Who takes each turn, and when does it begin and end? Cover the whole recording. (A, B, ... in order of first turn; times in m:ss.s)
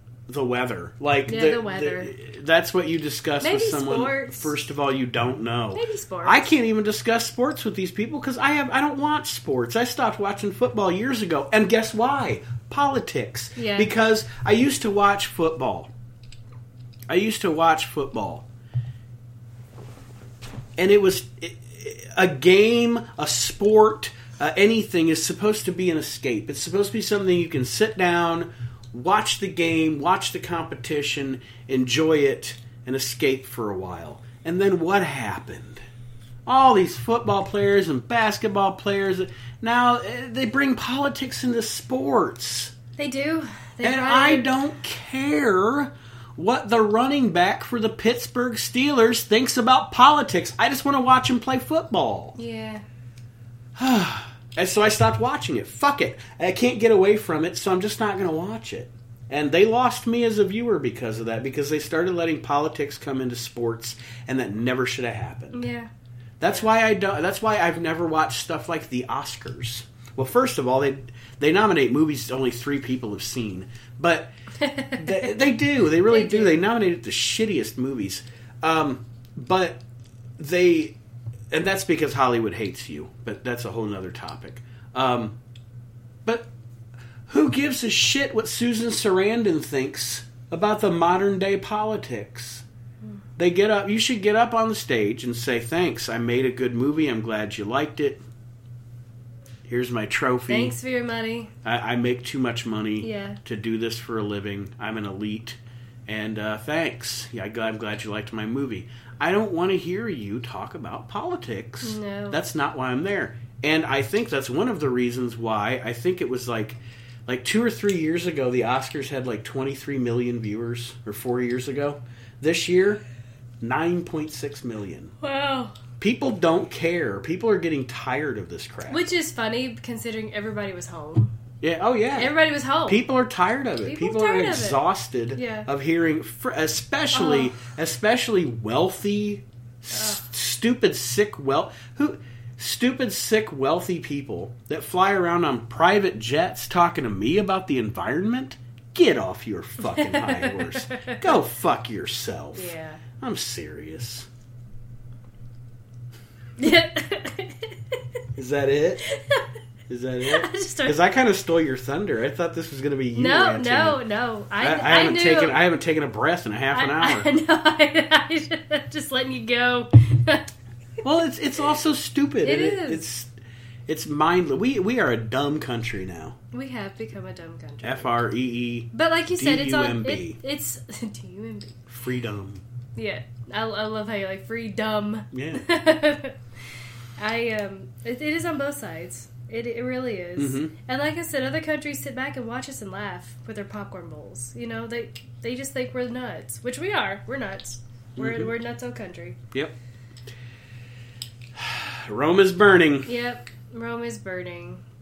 0:00.3-0:15.9 A
0:01.3-0:02.1 B
0:03.4-0:04.5 B
0:05.7-0:06.6 B
0:13.6-0:13.9 B
0:17.1-0:18.4 A
0:20.8-0:35.8 A
0:36.4-0:42.7 A
0:43.0-0:44.5 B
0:43.8-0:52.4 A
0:52.4-0:52.8 B
0:53.8-1:05.6 A
1:05.5-1:05.9 B
1:06.4-1:14.3 A
1:14.6-1:15.4 B
1:14.9-1:19.8 A
1:16.0-1:16.6 B
1:20.4-1:21.0 A
1:21.5-1:25.4 A
1:27.3-1:32.6 A
1:33.4-1:38.2 A
1:39.6-1:40.7 A
1:40.5-1:41.5 B
1:41.6-2:03.0 A
1:43.0-1:43.4 B
1:51.8-1:52.4 B
2:03.6-2:05.1 A
2:05.2-2:05.7 B
2:06.0-2:09.0 A
2:08.9-2:11.3 B
2:11.6-2:34.3 A
2:12.1-2:13.0 B
2:13.8-2:14.8 B
2:15.3-2:15.7 B
2:17.1-2:17.5 B
2:19.9-2:20.2 B
2:29.8-2:31.3 B
2:32.5-2:33.0 B
2:36.6-2:37.8 B
2:38.4-2:39.0 A
2:39.0-2:39.6 B
2:39.9-2:44.0 A
2:40.2-2:41.0 B
2:43.1-2:45.6 B
2:44.6-2:47.3 A
2:46.7-2:50.5 B
2:51.0-2:53.3 A
2:52.4-2:53.0 B
2:53.9-2:56.4 A
2:56.5-2:58.2 B
2:57.8-3:00.4 A
2:58.9-3:01.9 B
3:01.9-3:02.6 A
3:03.0-3:06.4 B
3:05.3-3:05.6 A
3:07.2-3:19.4 B
3:10.4-3:10.7 A
3:18.2-3:18.5 A
3:21.6-3:23.1 A
3:23.0-3:24.8 B